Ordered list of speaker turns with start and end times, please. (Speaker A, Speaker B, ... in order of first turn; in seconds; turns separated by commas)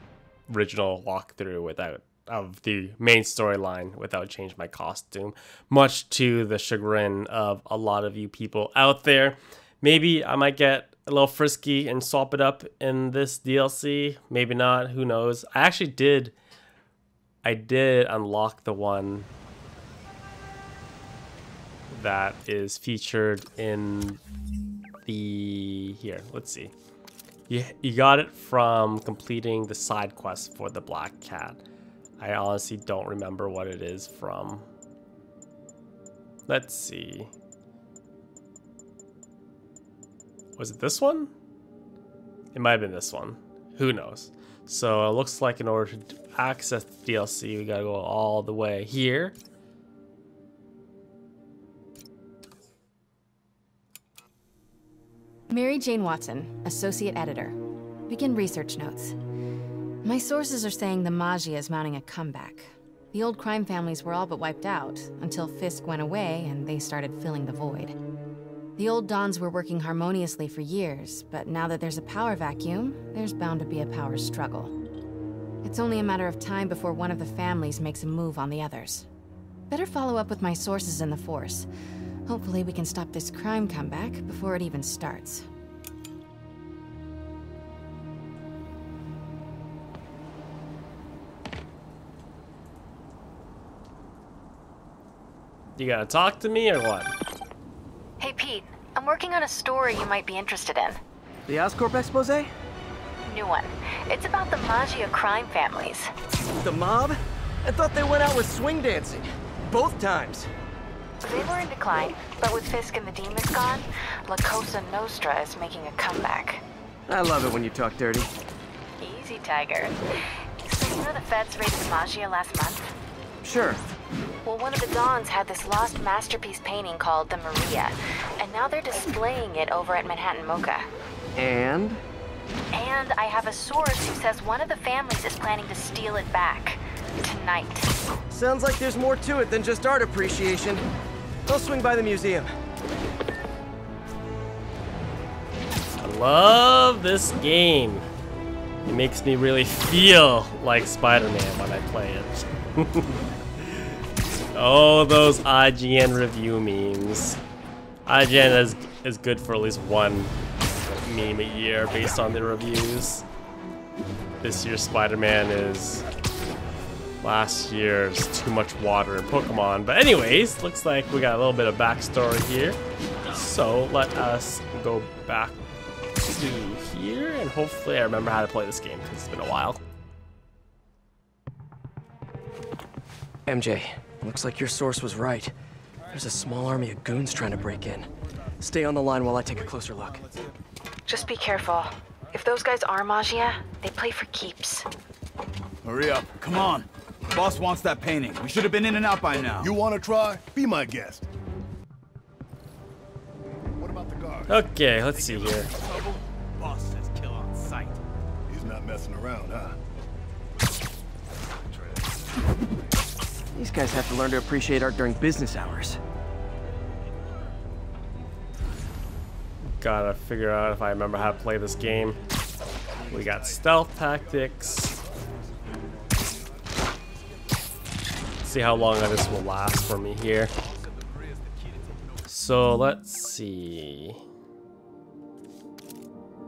Speaker A: 0.5-16.4, Speaker A: 17.4-19.3, Speaker A: 21.9-24.2, Speaker A: 25.1-26.7, Speaker A: 27.5-31.6, Speaker A: 32.2-34.7, Speaker A: 36.5-37.3, Speaker A: 40.6-41.3, Speaker A: 42.5-49.4, Speaker B: 55.5-57.6, Speaker B: 58.1-59.2, Speaker B: 60.0-68.0, Speaker B: 68.8-74.8, Speaker B: 75.6-79.1, Speaker B: 79.7-81.7, Speaker B: 82.3-85.5, Speaker A: 95.8-97.1, Speaker B: 98.2-101.0, Speaker C: 101.5-102.5, Speaker B: 103.3-106.1, Speaker C: 106.6-110.5, Speaker B: 111.2-116.6, Speaker C: 117.1-118.3, Speaker B: 119.0-120.0, Speaker B: 120.6-122.9, Speaker C: 123.4-123.8, Speaker B: 124.5-130.9, Speaker C: 131.4-132.0, Speaker B: 132.7-137.9, Speaker C: 138.3-140.9, Speaker C: 141.5-142.5, Speaker A: 146.0-148.1, Speaker A: 148.8-153.9, Speaker A: 154.6-157.4, Speaker A: 158.1-160.3, Speaker A: 160.9-163.2, Speaker A: 164.4-166.1, Speaker A: 167.2-172.8, Speaker A: 173.3-175.6, Speaker A: 176.2-179.8, Speaker C: 183.5-185.5, Speaker C: 186.1-188.1, Speaker C: 188.6-190.2, Speaker D: 190.2-190.6, Speaker B: 191.1-194.9, Speaker D: 195.8-199.7, Speaker E: 199.6-201.3, Speaker E: 203.8-204.7, Speaker A: 204.5-205.7, Speaker D: 205.1-208.0, Speaker E: 208.5-209.8, Speaker E: 211.5-212.2, Speaker C: 213.5-216.0, Speaker A: 219.8-222.2, Speaker E: 223.0-225.6, Speaker A: 223.1-225.0, Speaker E: 226.2-226.7, Speaker A: 228.4-230.5, Speaker D: 230.6-232.3, Speaker A: 232.3-234.2